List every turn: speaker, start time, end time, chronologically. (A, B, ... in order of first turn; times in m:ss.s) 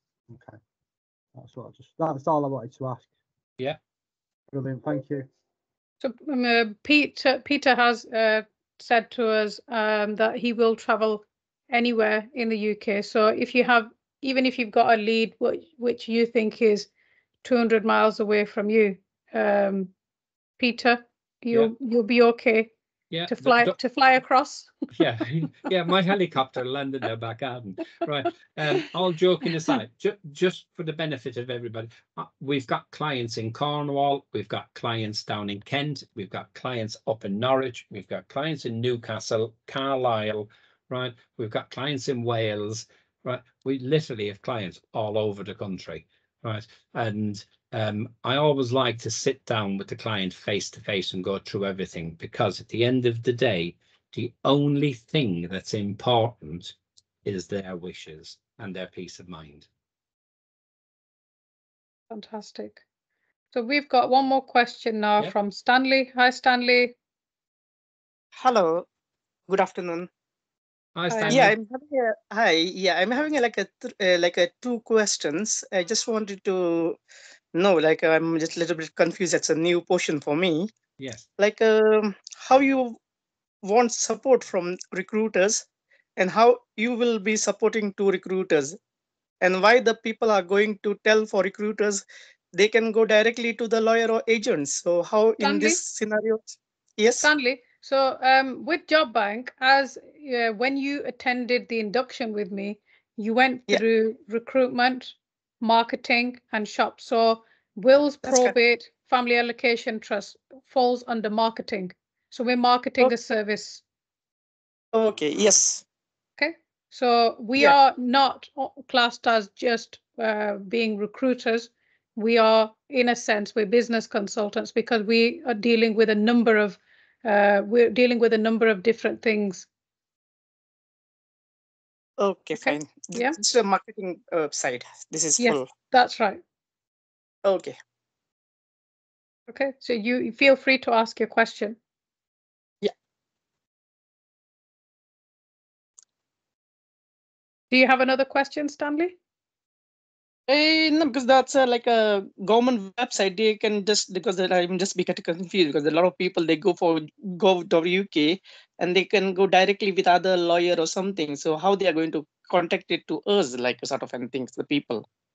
0:00.3-0:00.6 A
0:01.4-0:03.1 A
0:04.5-0:05.3 A
0:06.0-0:16.9 B
0:17.4-0:19.9 B
0:20.6-0:22.7 B
0:23.1-0:23.8 C
0:23.3-0:24.7 B
0:24.9-0:59.7 C
1:02.1-1:02.8 B
1:03.5-1:06.9 B
1:08.3-1:08.8 D
1:09.5-1:10.1 D
1:10.9-1:11.5 C
1:11.1-1:11.4 B
1:11.3-1:17.0 D
1:17.5-1:20.7 D
1:21.0-1:21.2 C
1:21.4-1:23.0 D
1:23.6-1:25.6 D
1:26.2-1:28.7 D
1:29.4-1:32.0 D
1:32.5-1:37.3 D
1:35.4-1:35.8 B
1:37.2-1:53.8 B
1:48.2-1:48.5 D
1:54.9-1:55.8 D
1:56.4-2:09.7 B
2:12.2-2:15.7 D
2:12.6-2:13.4 B
2:15.4-2:16.4 B
2:17.4-2:17.7 D
2:19.5-2:21.8 B
2:27.7-2:29.2 B
2:30.5-2:45.0 D